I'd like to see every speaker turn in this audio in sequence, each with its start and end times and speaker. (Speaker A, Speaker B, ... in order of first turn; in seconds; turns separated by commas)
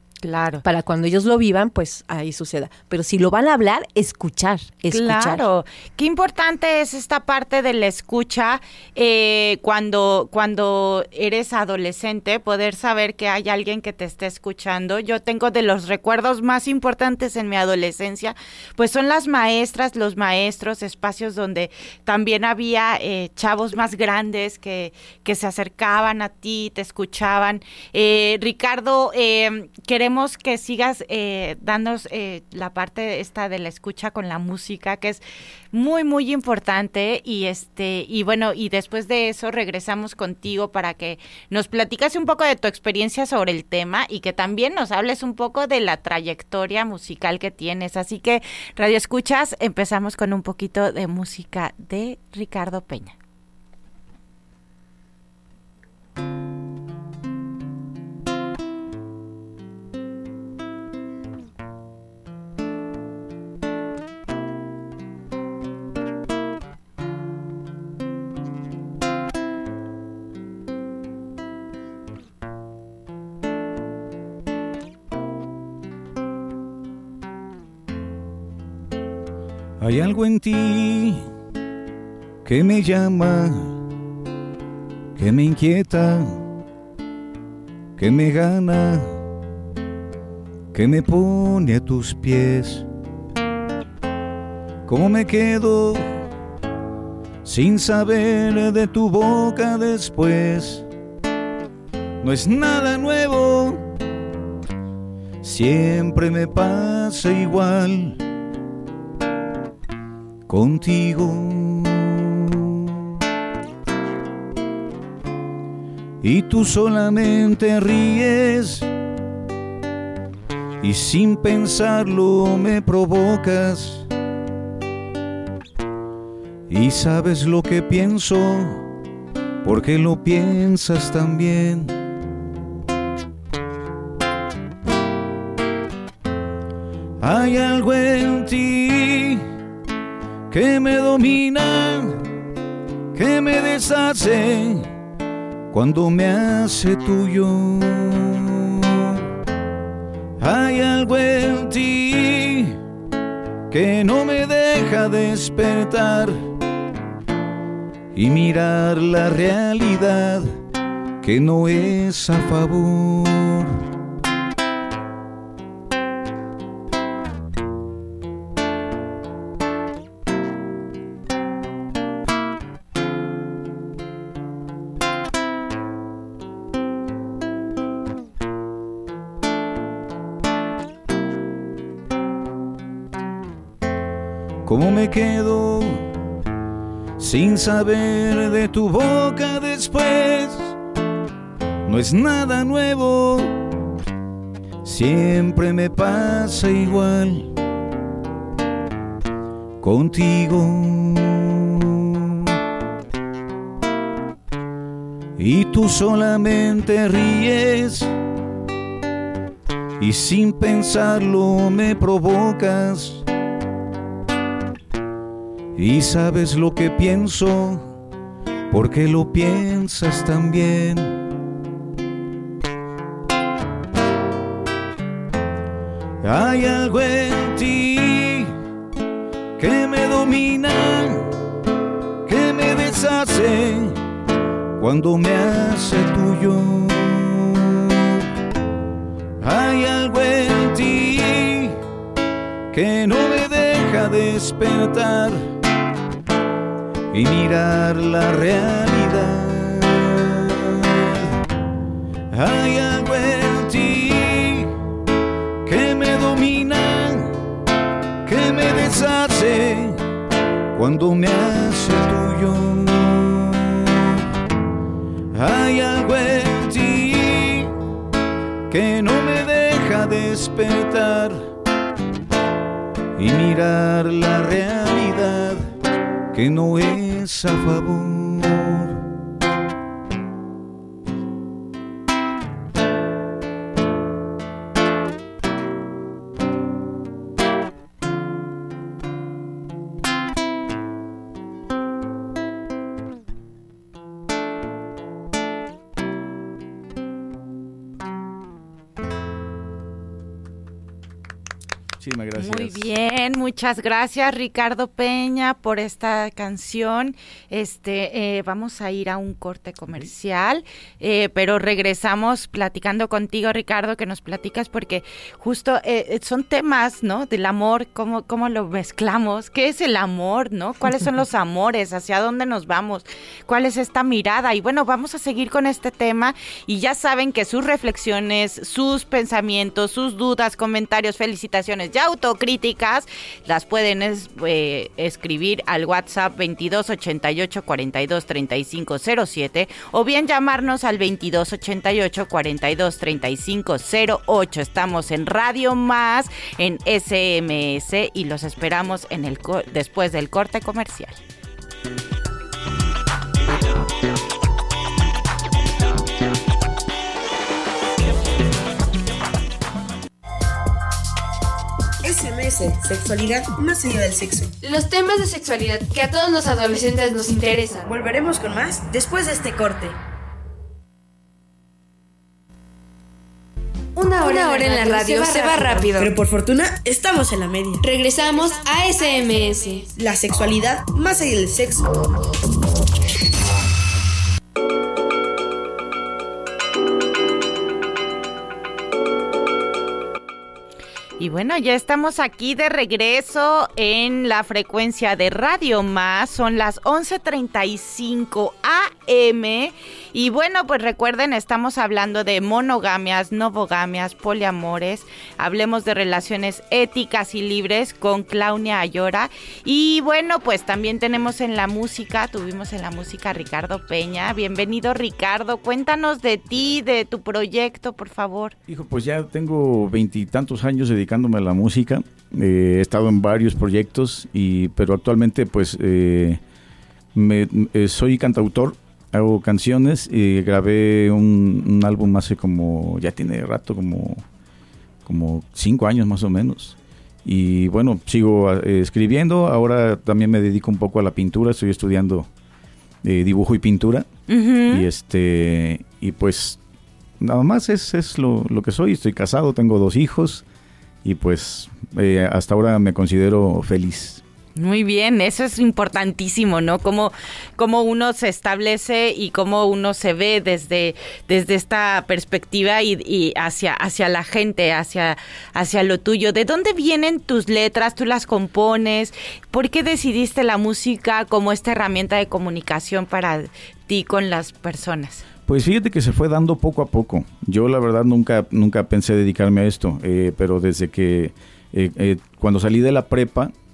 Speaker A: 0.2-0.6, Speaker B: 0.6-5.4, Speaker A: 4.9-35.2, Speaker A: 35.7-53.1, Speaker C: 79.8-81.2, Speaker C: 82.4-83.8, Speaker C: 85.2-86.4, Speaker C: 88.0-89.2, Speaker C: 90.7-92.9, Speaker C: 94.8-96.1, Speaker C: 97.4-100.8, Speaker C: 102.2-103.8, Speaker C: 105.4-108.2, Speaker C: 110.5-113.0, Speaker C: 116.2-118.9, Speaker C: 120.8-124.1, Speaker C: 126.7-128.8, Speaker C: 129.6-131.9, Speaker C: 137.2-139.4, Speaker C: 140.5-142.2, Speaker C: 143.1-144.9, Speaker C: 145.7-149.2, Speaker C: 150.4-152.8, Speaker C: 153.7-156.5, Speaker C: 158.1-160.5, Speaker C: 161.2-163.8, Speaker C: 184.6-186.1, Speaker C: 187.2-190.7, Speaker C: 191.8-193.5, Speaker C: 194.8-197.5, Speaker C: 199.8-202.5, Speaker C: 205.4-208.1, Speaker C: 210.0-213.2, Speaker C: 215.8-217.9, Speaker C: 218.7-221.2, Speaker C: 226.2-228.5, Speaker C: 229.6-231.3, Speaker C: 232.2-234.0, Speaker C: 234.8-238.2, Speaker C: 239.4-241.8, Speaker C: 242.7-245.4, Speaker C: 247.1-251.4, Speaker C: 252.3-254.7, Speaker C: 255.6-257.4, Speaker C: 258.2-260.0, Speaker C: 260.7-264.2, Speaker C: 265.3-267.8, Speaker C: 268.7-271.4, Speaker C: 273.1-275.7, Speaker C: 276.3-279.0, Speaker C: 302.0-302.8, Speaker A: 302.4-351.2, Speaker D: 362.0-364.5, Speaker E: 364.6-367.9, Speaker D: 367.9-370.0, Speaker E: 373.9-376.1, Speaker D: 374.2-377.8, Speaker E: 377.8-379.9, Speaker D: 379.9-381.9, Speaker A: 391.2-418.6, Speaker C: 418.7-426.4, Speaker C: 427.1-434.2, Speaker C: 435.0-442.3, Speaker C: 443.0-444.1, Speaker A: 444.3-444.9, Speaker C: 444.7-446.6, Speaker C: 447.2-450.4, Speaker C: 451.0-454.2, Speaker A: 454.6-475.2, Speaker C: 475.5-483.5